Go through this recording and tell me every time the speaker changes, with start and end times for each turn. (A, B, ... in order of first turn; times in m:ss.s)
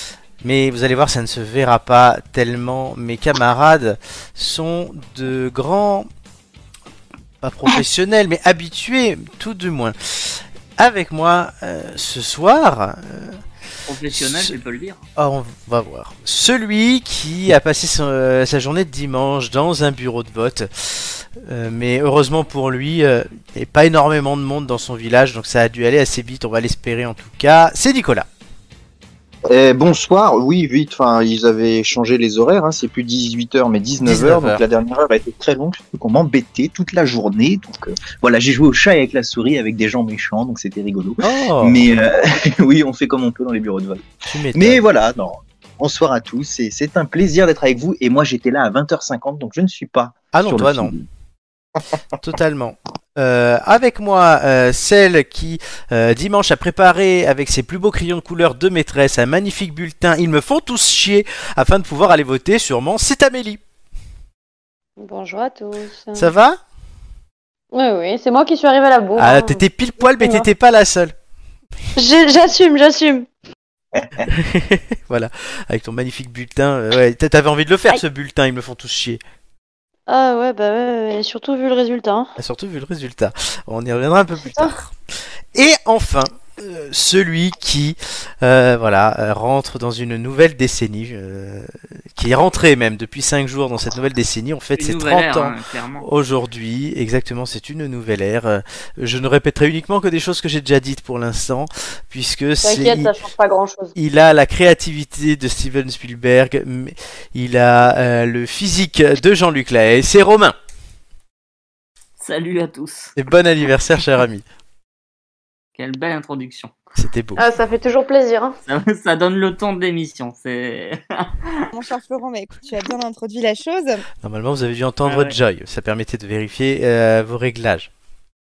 0:00.4-0:06.1 A
0:07.4-0:13.4 A
0:13.9-0:15.0 B
0:14.1-0:14.6 A
0:15.2-0:28.3 A
0:29.5-0:51.1 C
0:34.0-0:34.6 A
0:41.2-0:41.9 A
0:44.3-0:44.8 A
0:50.3-0:50.9 A
0:52.2-1:03.6 A
1:05.0-1:06.3 D
1:06.2-1:06.6 A
1:07.7-1:09.6 D
1:09.2-1:11.1 A
1:10.2-1:10.4 D
1:12.0-1:13.3 D
1:13.9-1:14.3 C
1:14.3-1:19.2 A
1:20.1-1:22.3 D
1:22.4-1:24.9 A
1:25.5-1:43.1 A
1:34.8-1:36.0 B
1:42.6-1:43.9 D
1:44.0-1:50.6 A
1:52.2-1:53.1 B
1:53.2-1:54.4 A
1:55.8-1:56.8 B
1:57.0-1:57.4 A
1:57.4-1:58.5 D
1:58.7-2:01.5 B
2:01.7-2:04.0 E
2:04.2-2:07.9 A
2:05.0-2:05.3 B